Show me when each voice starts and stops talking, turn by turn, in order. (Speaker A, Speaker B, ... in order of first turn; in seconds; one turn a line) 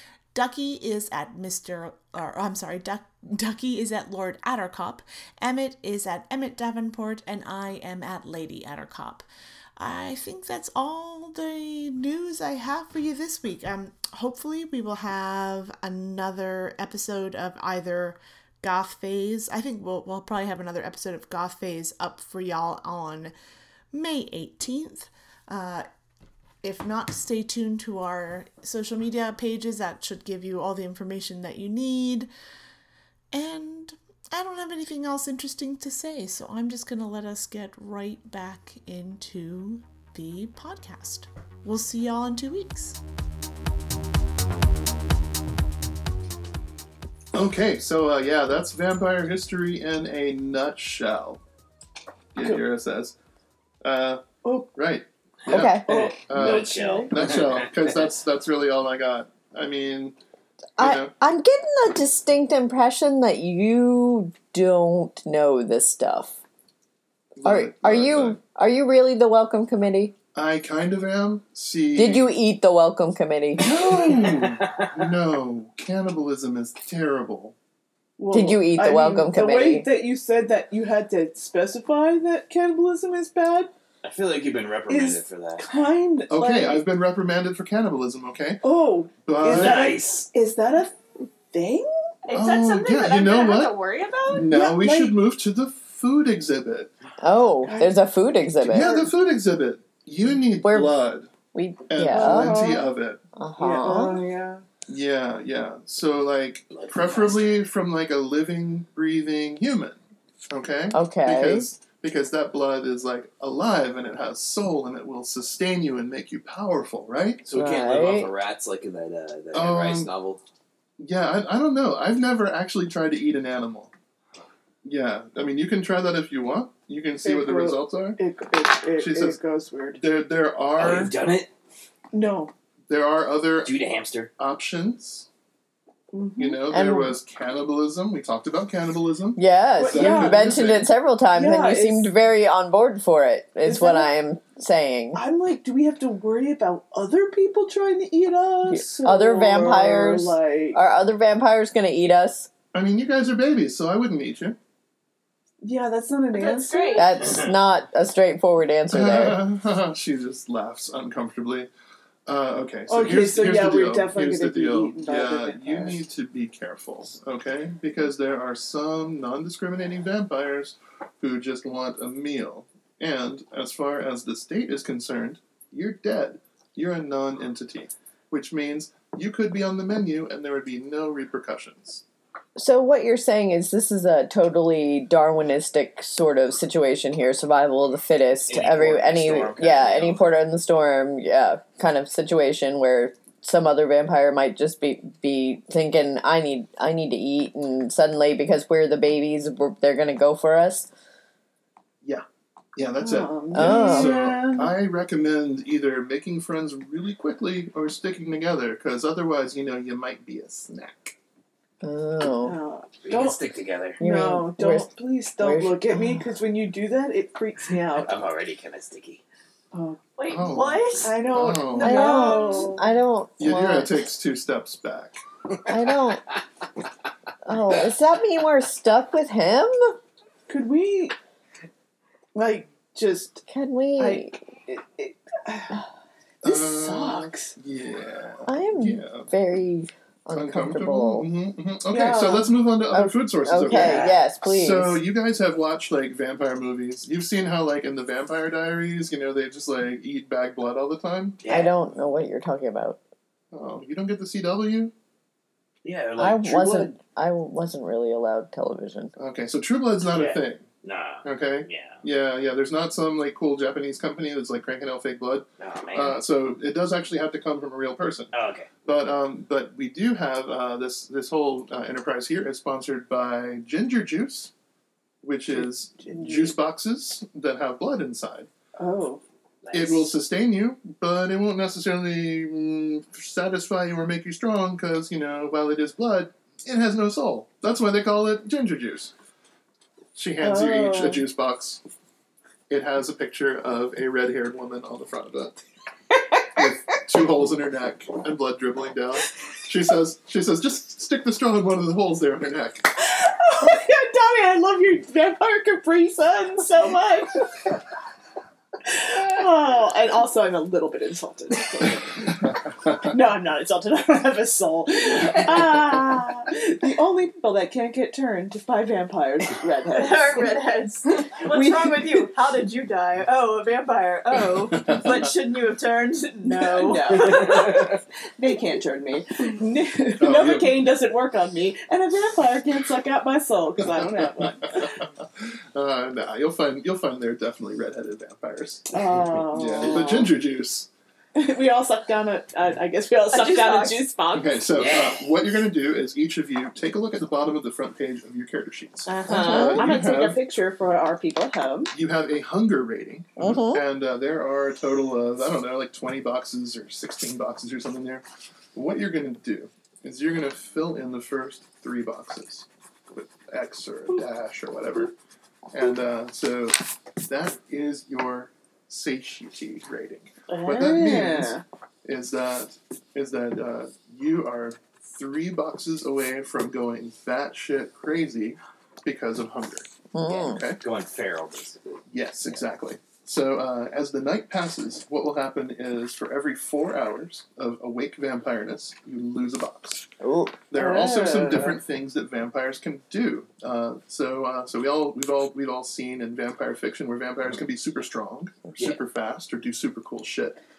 Speaker A: 0.3-9.2
Speaker A: 9.8-23.3
Speaker A: 23.9-25.9
Speaker A: 26.6-32.3
Speaker A: 33.3-43.0
Speaker B: 47.3-51.4
Speaker B: 52.3-53.1
Speaker B: 53.8-60.1
Speaker C: 54.4-54.7
Speaker D: 55.5-55.9
Speaker C: 55.9-57.1
Speaker E: 55.9-58.0
Speaker B: 60.8-61.1
Speaker D: 60.8-66.3
Speaker B: 67.4-68.4
Speaker D: 67.4-70.1
Speaker B: 70.3-72.3
Speaker D: 72.0-73.8
Speaker B: 73.6-77.5
Speaker E: 74.2-75.0
Speaker C: 78.2-83.7
Speaker D: 78.3-79.9
Speaker E: 84.0-85.7
Speaker C: 84.9-86.8
Speaker B: 86.3-88.6
Speaker C: 88.6-91.9
Speaker B: 89.2-89.9
Speaker E: 89.4-90.3
Speaker F: 92.2-94.5
Speaker B: 92.3-93.8
Speaker B: 94.3-96.9
Speaker C: 94.5-95.2
Speaker D: 97.2-99.0
Speaker C: 97.6-98.0
Speaker B: 98.6-101.3
Speaker C: 98.7-99.1
Speaker D: 100.6-101.0
Speaker D: 101.5-102.6
Speaker B: 101.9-103.2
Speaker C: 102.1-102.9
Speaker D: 103.3-104.2
Speaker C: 103.6-104.6
Speaker B: 104.9-117.4
Speaker E: 106.7-107.5
Speaker D: 110.9-111.7
Speaker E: 117.5-120.4
Speaker D: 117.5-118.3
Speaker B: 119.5-120.1
Speaker B: 121.0-123.9
Speaker B: 124.8-128.2
Speaker C: 127.2-130.0
Speaker B: 129.0-129.4
Speaker B: 130.0-131.1
Speaker E: 130.8-131.5
Speaker C: 132.1-132.5
Speaker B: 132.9-133.8
Speaker E: 133.6-134.3
Speaker B: 134.4-135.3
Speaker C: 136.1-136.6
Speaker B: 136.4-140.9
Speaker D: 136.7-137.2
Speaker D: 139.3-145.2
Speaker C: 139.8-140.5
Speaker C: 141.3-142.1
Speaker C: 143.6-144.1
Speaker C: 145.1-150.8
Speaker D: 148.7-152.5
Speaker B: 152.7-154.6
Speaker C: 155.6-157.0
Speaker F: 156.3-157.1
Speaker D: 156.9-159.4
Speaker B: 158.9-161.7
Speaker B: 162.2-182.0
Speaker C: 162.9-166.0
Speaker D: 182.6-200.9
Speaker E: 188.5-190.3
Speaker B: 202.8-211.2
Speaker C: 203.0-204.7
Speaker D: 203.5-204.2
Speaker D: 211.8-212.6
Speaker C: 212.4-213.4
Speaker E: 213.0-214.0
Speaker C: 214.0-218.2
Speaker D: 214.0-216.0
Speaker E: 217.9-219.2
Speaker C: 219.7-220.0
Speaker F: 220.2-222.8
Speaker B: 220.3-222.1
Speaker C: 221.0-222.9
Speaker D: 221.8-224.0
Speaker B: 223.4-225.2
Speaker D: 225.7-226.2
Speaker D: 227.4-229.9
Speaker C: 230.5-231.1
Speaker C: 232.3-233.4
Speaker D: 233.5-234.4
Speaker C: 234.0-235.8
Speaker B: 236.4-239.3
Speaker C: 236.4-237.5
Speaker D: 238.5-241.3
Speaker B: 240.3-251.4
Speaker C: 241.9-242.5
Speaker D: 242.9-245.0
Speaker E: 243.7-244.2
Speaker E: 251.4-251.8
Speaker D: 251.5-253.0
Speaker B: 253.5-254.9
Speaker E: 255.8-257.0
Speaker D: 256.2-259.1
Speaker B: 259.2-260.7
Speaker E: 260.1-262.0
Speaker B: 261.2-268.3
Speaker E: 265.6-266.2
Speaker E: 268.3-268.7
Speaker B: 268.8-274.5
Speaker B: 275.2-278.5
Speaker C: 275.5-276.6
Speaker C: 278.8-279.2
Speaker E: 279.6-280.1
Speaker B: 279.7-289.1
Speaker B: 290.1-291.8
Speaker C: 290.4-291.2
Speaker B: 292.7-295.6
Speaker C: 296.3-296.6
Speaker B: 296.5-302.9
Speaker C: 303.0-307.4
Speaker C: 308.8-320.6
Speaker F: 319.9-327.9
Speaker C: 321.2-322.3
Speaker C: 326.4-335.0
Speaker E: 326.9-328.0
Speaker B: 330.2-330.8
Speaker B: 333.9-340.9
Speaker C: 338.9-340.3
Speaker C: 341.4-344.6
Speaker F: 343.3-344.1
Speaker B: 344.3-350.4
Speaker E: 344.7-345.3
Speaker C: 349.1-351.9
Speaker D: 349.3-349.9
Speaker B: 351.9-365.1
Speaker D: 353.4-353.8
Speaker B: 365.7-380.8
Speaker C: 370.5-371.6
Speaker D: 380.1-380.6
Speaker E: 380.8-382.0
Speaker B: 382.1-390.1
Speaker D: 390.2-390.5
Speaker B: 390.7-400.6
Speaker C: 390.7-391.8